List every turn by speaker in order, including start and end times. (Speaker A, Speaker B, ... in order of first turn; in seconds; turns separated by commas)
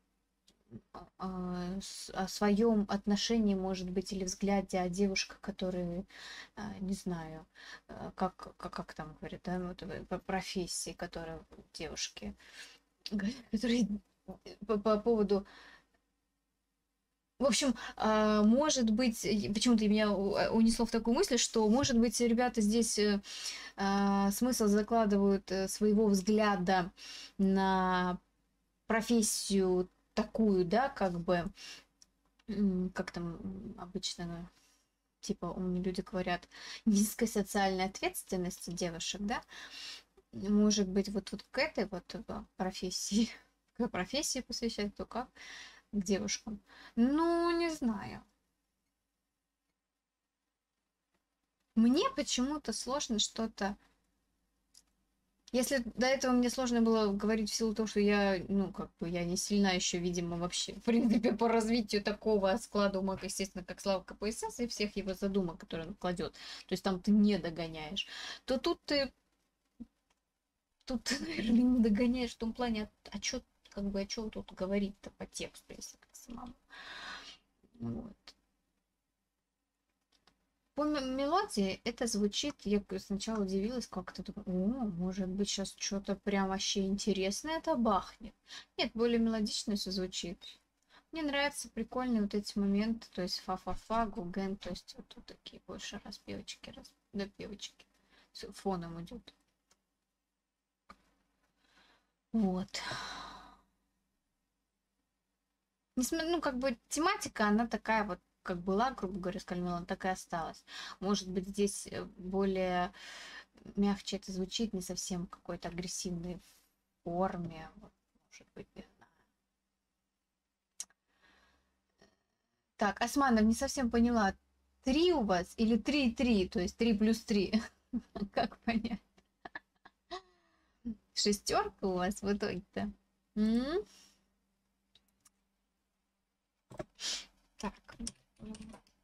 Speaker A: 0.7-12.3, Speaker A: 13.1-15.4, Speaker A: 17.4-23.2, Speaker A: 23.8-28.2, Speaker A: 28.9-31.5, Speaker A: 32.5-34.5, Speaker A: 35.2-39.4, Speaker A: 40.3-45.3, Speaker A: 45.9-48.3, Speaker A: 51.7-53.8, Speaker A: 55.5-69.1, Speaker A: 70.8-76.6, Speaker A: 77.8-78.3, Speaker A: 80.7-90.6, Speaker A: 91.1-99.3, Speaker A: 102.3-103.4, Speaker A: 106.0-112.9, Speaker A: 113.6-116.4, Speaker A: 117.0-119.1, Speaker A: 122.8-129.1, Speaker A: 131.1-133.8, Speaker A: 137.6-138.8